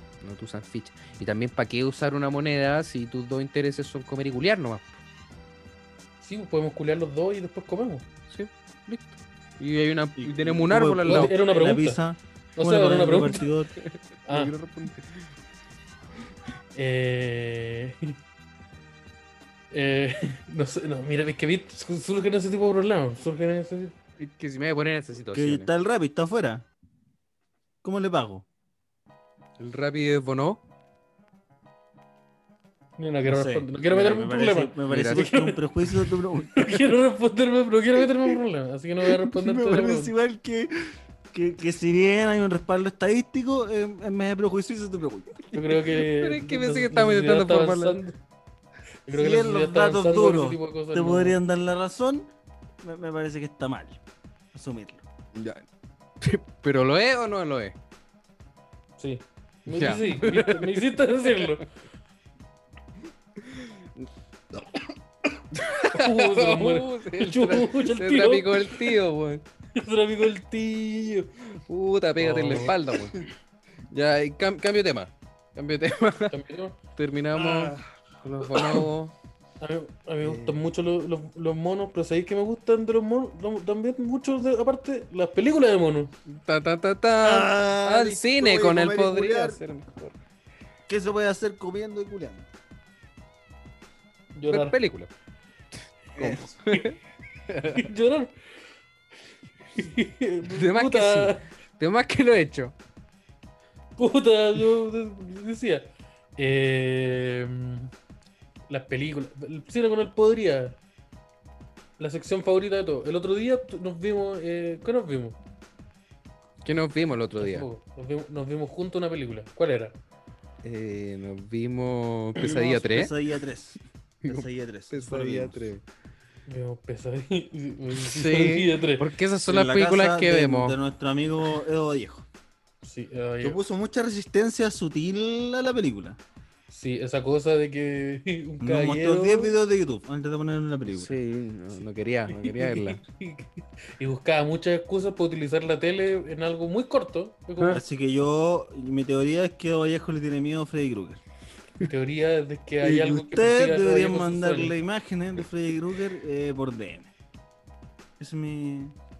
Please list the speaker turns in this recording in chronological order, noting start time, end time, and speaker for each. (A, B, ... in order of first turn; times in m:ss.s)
0:00.2-0:05.0 A
0:06.2-0:08.1 B
0:08.3-0:11.3 A
0:10.2-0:13.7 C
0:11.1-0:12.0 B
0:12.6-0:13.5 B
0:13.8-0:15.3 A
0:14.3-0:14.5 B
0:16.8-0:18.2 B
0:19.7-0:23.9 B
0:24.2-0:25.7 A
0:25.3-0:26.7 C
0:27.8-0:28.5 C
0:29.6-0:30.6 A
0:33.0-0:40.1 B
0:33.2-0:36.7 C
0:34.9-0:35.3 A
0:39.1-0:45.4 C
0:45.5-0:48.0 A
0:45.5-0:48.2 B
0:49.1-0:51.4 B
0:49.1-0:54.0 C
0:54.5-0:55.0 C
0:55.3-0:55.6 A
0:56.2-0:57.8 A
0:59.0-1:01.7 B
0:59.7-1:01.5 A
1:03.4-1:04.1 A
1:05.6-1:09.4 A
1:05.9-1:09.0 B
1:09.8-1:11.3 B
1:11.5-1:13.3 A
1:12.2-1:12.8 B
1:13.9-1:16.4 A
1:16.3-1:16.8 B
1:17.0-1:19.1 A
1:17.3-1:17.8 C
1:19.6-1:26.1 B
1:20.2-1:20.6 A
1:26.3-1:30.2 A
1:27.2-1:29.6 C
1:30.9-1:32.5 C
1:34.4-1:34.8 B
1:34.5-1:35.1 A
1:36.2-1:36.5 C
1:36.2-1:37.0 A
1:37.5-1:37.9 A
1:37.7-1:38.4 B
1:39.8-1:41.4 B
1:40.5-1:42.7 A
1:44.0-1:47.9 B
1:48.7-1:50.8 B
1:52.0-1:55.4 B
1:56.6-1:57.7 A
1:57.4-2:00.0 B
2:00.6-2:03.1 A
2:02.4-2:05.7 C
2:04.2-2:05.8 A
2:06.5-2:09.1 B
2:08.0-2:10.8 A
2:09.5-2:12.3 C
2:12.8-2:13.6 B
2:13.4-2:16.2 C
2:16.7-2:19.5 B
2:18.6-2:21.2 C
2:20.9-2:23.0 A
2:22.3-2:27.8 B
2:27.7-2:31.2 C
2:31.8-2:34.8 B
2:32.8-2:37.1 C
2:38.2-2:39.0 C